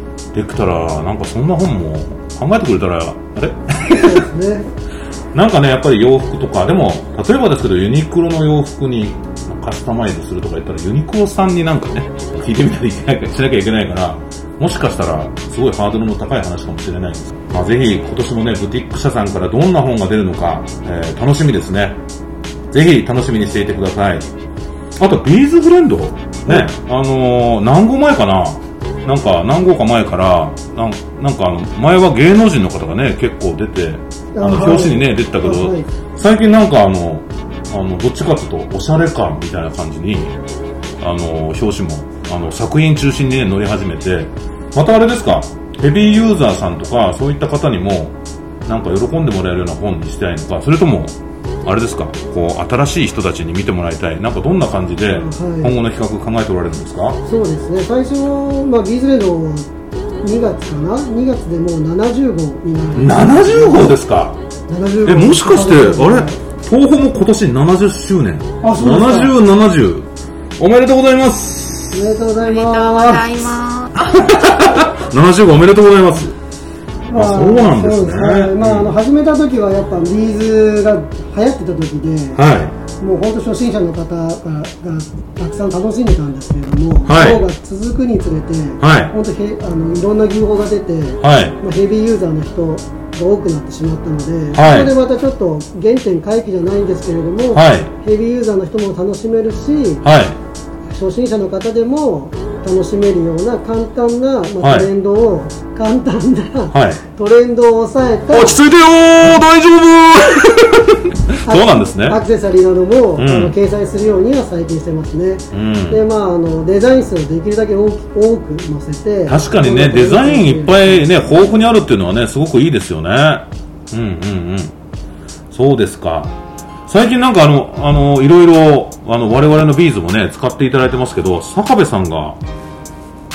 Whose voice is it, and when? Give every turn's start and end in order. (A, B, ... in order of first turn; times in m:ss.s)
0:00.3-0:04.3 A
0:03.8-0:04.7 B
0:05.3-0:22.0 A
0:22.7-0:24.3 A
0:25.0-0:40.4 A
0:34.3-0:35.9 B
0:41.0-0:48.2 A
0:48.7-0:57.2 A
0:55.1-0:55.7 B
0:57.2-0:59.7 B
1:00.2-1:03.9 B
1:02.9-1:04.4 A
1:04.7-1:06.4 B
1:05.0-1:10.0 A
1:08.6-1:09.3 B
1:10.6-1:12.2 A
1:11.9-1:13.3 B
1:12.4-1:14.8 C
1:14.1-1:16.3 A
1:17.1-1:22.4 B
1:17.1-1:18.9 A
1:22.3-1:22.8 A
1:23.0-1:40.0 B
1:27.0-1:27.4 A
1:28.8-1:29.1 A
1:31.2-1:31.6 A
1:34.5-1:34.9 A
1:37.5-1:37.9 A
1:40.0-1:40.4 A
1:40.9-1:48.6 B
1:44.6-1:44.9 A
1:46.7-1:47.0 A
1:48.3-1:52.2 A
1:51.4-2:01.7 B
1:53.2-1:53.5 A
1:55.5-1:56.0 A
1:59.3-2:04.7 A
2:05.5-2:06.3 A
2:06.9-2:12.4 A